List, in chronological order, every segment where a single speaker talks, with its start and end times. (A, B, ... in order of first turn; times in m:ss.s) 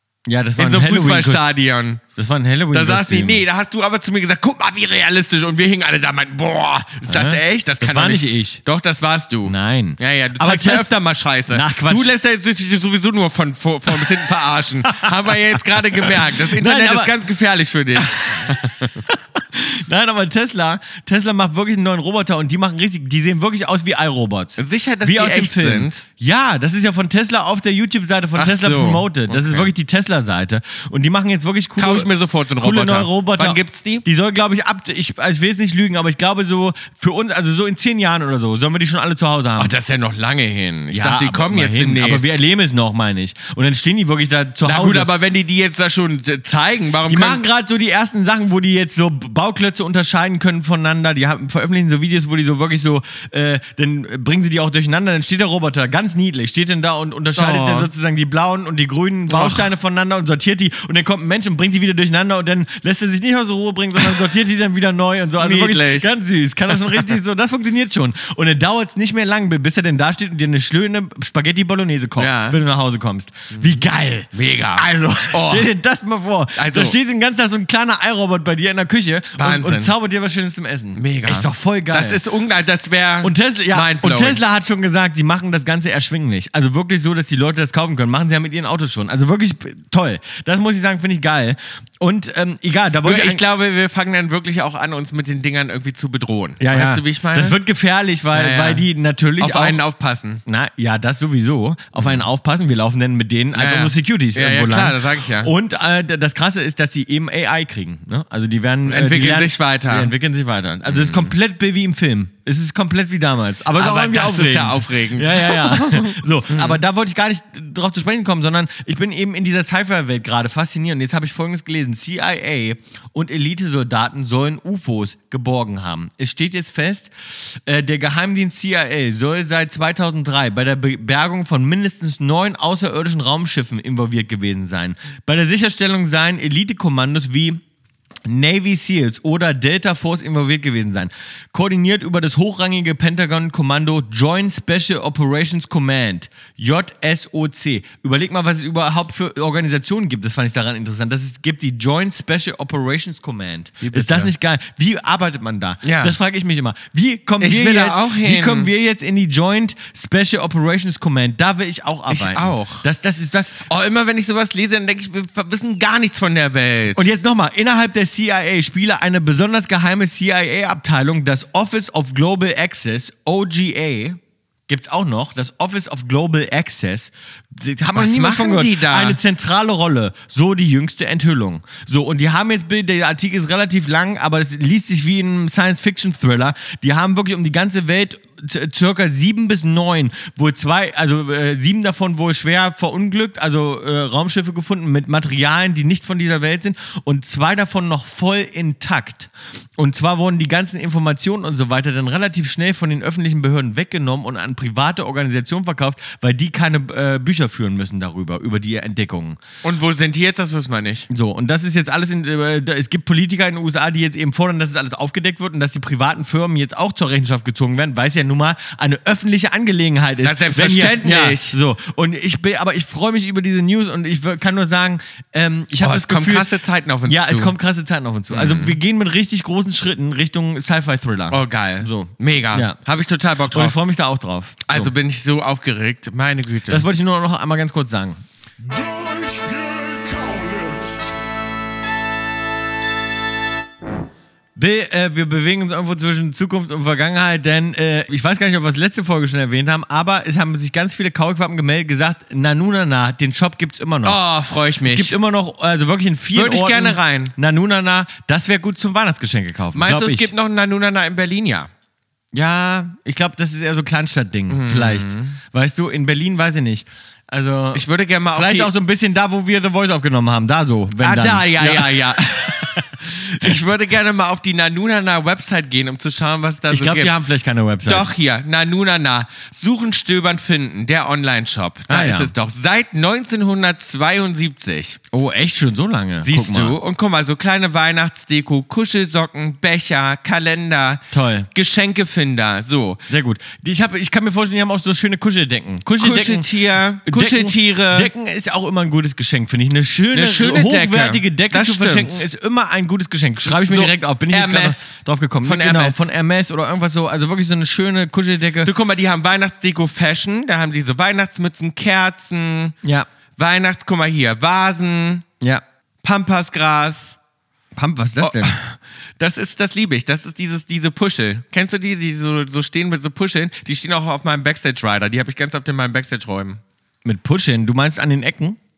0:00.3-0:01.4 A
0:00.6-0:02.0 B
0:02.2-0:03.4 A
0:02.7-0:18.9 B
0:07.1-0:08.6 A
0:09.5-0:10.9 A
0:11.5-0:12.1 A
0:14.9-0:15.4 A
0:16.0-0:17.2 A
0:18.0-0:39.7 A
0:24.6-0:26.0 B
0:28.4-0:29.7 B
0:31.8-0:34.0 B
0:39.6-0:42.4 B
0:40.9-0:45.1 A
0:44.6-0:47.4 B
0:47.1-1:22.2 A
0:57.4-0:57.9 B
0:59.3-0:59.7 B
1:05.4-1:06.1 B
1:06.7-1:07.2 B
1:12.2-1:12.6 B
1:13.5-1:15.7 B
1:16.6-1:17.0 B
1:19.4-1:19.9 B
1:21.0-1:24.4 B
1:23.2-1:33.4 A
1:33.0-1:37.6 B
1:36.6-1:39.8 A
1:38.3-1:38.9 B
1:39.4-1:40.4 B
1:40.5-2:17.6 A
1:42.0-1:42.2 B
1:43.5-1:45.5 B
1:48.9-1:50.1 B
1:50.9-1:51.3 B
1:53.8-1:56.8 B
2:18.3-2:43.6 A
2:33.8-2:34.3 B
2:35.8-2:36.1 B
2:37.4-2:38.7 B
2:42.1-2:42.8 B
2:43.7-2:47.1 B
2:47.0-3:29.4 A
2:57.9-2:59.2 B
3:29.6-3:31.1 B
3:31.1-3:46.5 A
3:40.2-3:41.6 B
3:45.8-3:47.6 B
3:47.1-3:52.8 A
3:48.3-3:48.8 B
3:51.3-3:53.8 B
3:53.5-3:54.9 A
3:54.7-3:56.9 B
3:56.7-3:58.2 A
3:58.6-4:01.2 C
4:04.6-4:14.2 A
4:14.0-4:15.2 B
4:14.8-4:20.3 A
4:16.3-4:17.3 B
4:19.7-4:21.7 B
4:22.3-4:32.9 A
4:24.5-4:25.4 B
4:27.7-4:28.7 B
4:31.0-4:37.1 B
4:36.7-4:38.1 A
4:37.8-4:45.0 B
4:41.9-4:42.3 A
4:45.1-4:46.8 A
4:46.2-4:53.0 B
4:51.1-4:51.5 A
4:53.1-5:08.7 A
4:56.0-4:58.1 B
5:00.1-5:02.2 B
5:03.4-5:06.1 B
5:08.6-5:12.8 B
5:13.4-5:15.3 B
5:16.0-5:17.2 B
5:17.8-5:18.6 A
5:18.2-5:26.6 B
5:27.0-5:28.6 A